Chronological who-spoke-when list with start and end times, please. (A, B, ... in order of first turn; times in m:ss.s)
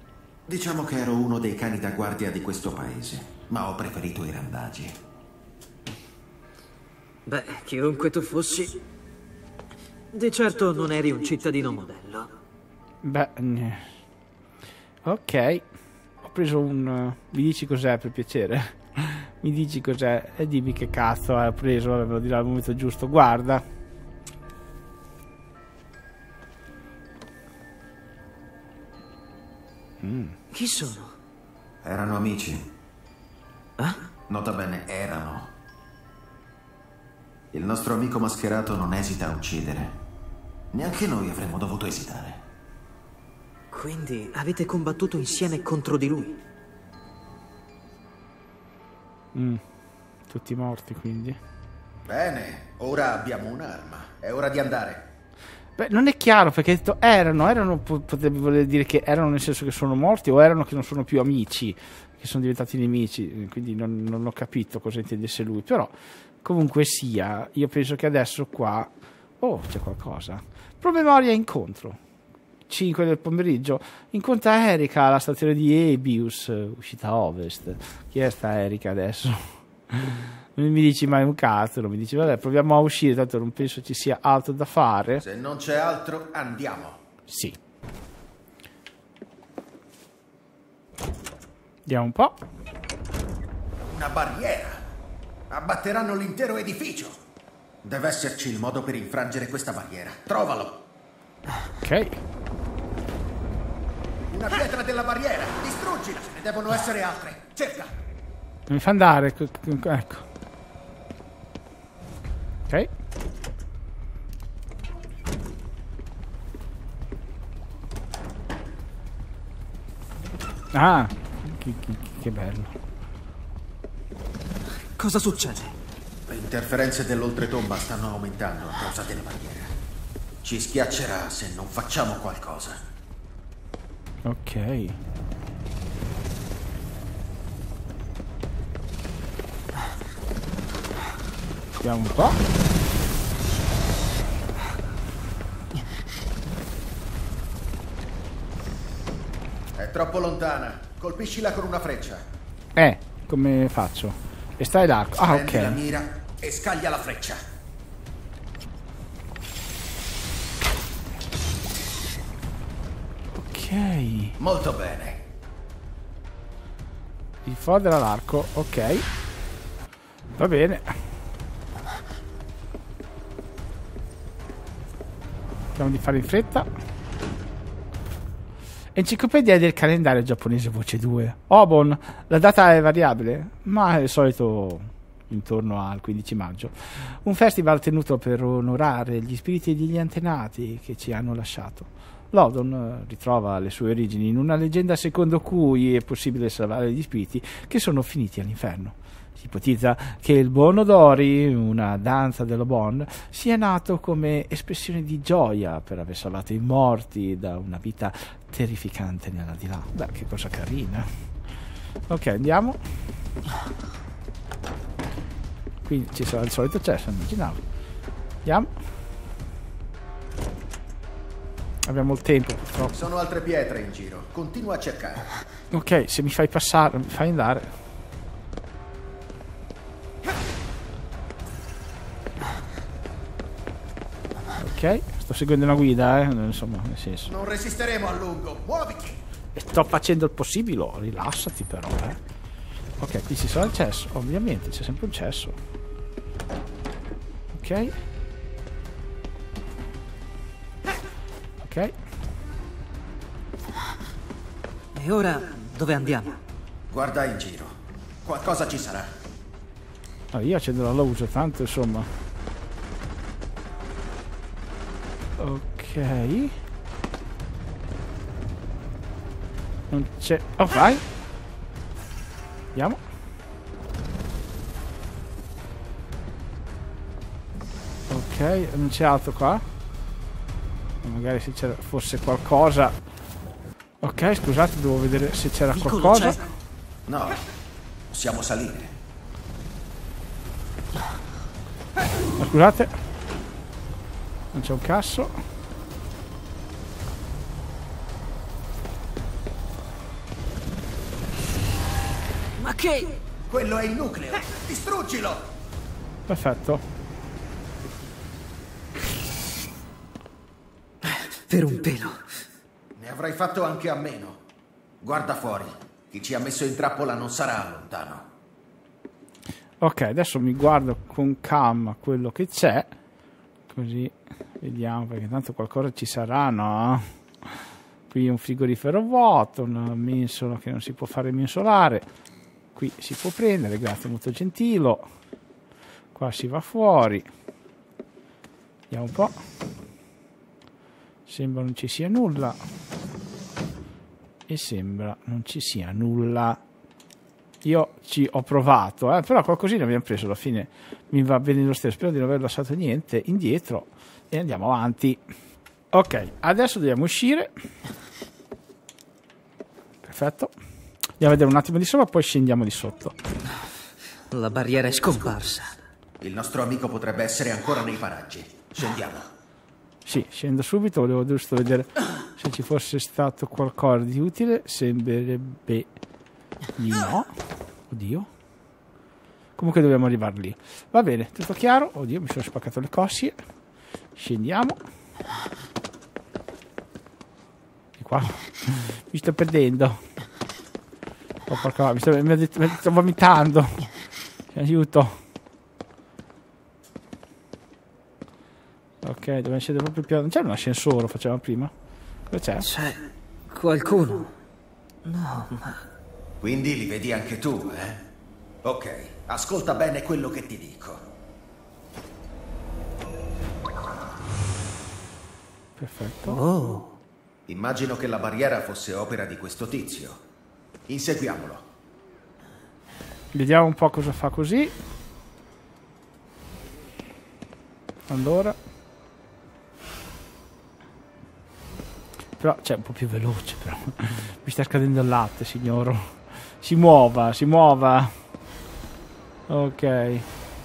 0:00.5-0:05.0 A
0:07.2-0:08.8 B
0:10.1-0:12.3 B
0:13.0-0:13.9 C
0:15.0-0:15.6 C
0:16.2-0:23.6 C
0:30.0-0:30.4 C
0:30.5-0:31.1 B
0:31.8-0:32.7 A
0:34.3-0:35.5 A
0:37.5-0:40.0 A
0:40.7-0:42.4 A
0:43.7-0:46.4 B
0:49.3-0:49.6 C
0:50.3-0:51.4 C
0:52.1-0:55.1 A
0:55.8-1:12.0 C
1:12.7-1:25.2 C
1:25.2-1:27.0 A
1:27.3-1:27.6 C
1:31.8-1:32.4 C
1:33.8-1:34.8 A
1:35.5-1:37.2 A
1:37.8-1:40.8 A
1:41.8-1:42.2 C
1:44.3-1:47.9 A
1:48.7-1:50.2 C
2:00.7-2:02.7 C
2:05.0-2:05.7 B
2:06.3-2:09.7 A
2:10.4-2:12.8 A
2:14.2-2:15.0 C
2:21.8-2:22.4 C
2:29.7-2:32.2 A
2:32.8-2:35.8 C
2:35.2-2:37.4 A
2:43.3-2:44.4 C
2:44.4-2:45.2 A
2:47.4-2:49.0 C
2:50.4-2:51.0 C
2:55.7-2:56.7 C
2:58.9-3:31.1 C
3:32.1-3:32.8 C
3:35.8-3:37.6 C
3:38.4-3:38.7 C
3:41.8-3:43.0 C
3:42.9-3:45.3 A
3:45.7-3:47.7 C
3:54.6-3:57.3 C
3:57.3-3:59.2 A
3:59.5-4:02.2 C
4:03.0-4:05.6 C
4:07.5-4:07.9 C
4:11.6-4:11.9 C
4:14.9-4:16.4 B
4:16.9-4:19.1 A
4:20.3-4:22.1 C
4:25.4-4:26.5 C
4:29.9-4:31.0 C
4:32.7-4:33.0 C
4:38.1-4:39.6 C
4:41.0-4:42.9 C
4:44.0-4:46.4 C
4:45.8-4:46.4 B
4:47.1-4:47.4 A
4:48.1-4:48.9 A
4:52.4-4:52.9 C
4:54.5-4:55.3 C
5:02.6-5:03.1 B
5:03.5-5:05.5 A
5:06.3-5:06.8 C
5:11.0-5:12.2 B
5:12.9-5:14.4 A
5:15.0-5:18.3 A
5:19.8-5:22.9 C
5:23.7-5:27.5 C
5:28.1-5:32.1 C
5:32.7-5:35.1 C
5:36.1-5:37.3 C
5:38.9-5:39.4 C
5:41.3-5:42.6 C
5:44.5-5:46.6 C
5:47.6-5:55.2 C
5:55.9-5:57.5 C
6:00.0-6:00.5 C
6:01.2-6:03.2 C
6:04.3-6:05.7 B
6:06.2-6:09.3 A
6:10.0-6:15.9 C
6:16.8-6:17.3 C
6:17.9-6:18.3 C
6:19.6-6:23.4 C
6:24.2-6:24.8 C
6:28.0-6:30.0 C
6:31.5-6:33.9 C
6:34.5-6:35.2 C
6:39.0-6:41.7 C
6:42.3-6:42.7 C
6:42.6-6:44.3 B
6:45.0-6:45.8 B
6:46.4-6:48.0 A
6:48.6-6:51.0 A
6:55.8-6:56.4 C
6:56.3-6:56.9 B
6:57.5-7:00.2 A
7:00.9-7:01.6 A
7:03.3-7:04.7 C
7:08.1-7:08.6 C
7:12.4-7:18.1 C
7:19.5-7:20.2 C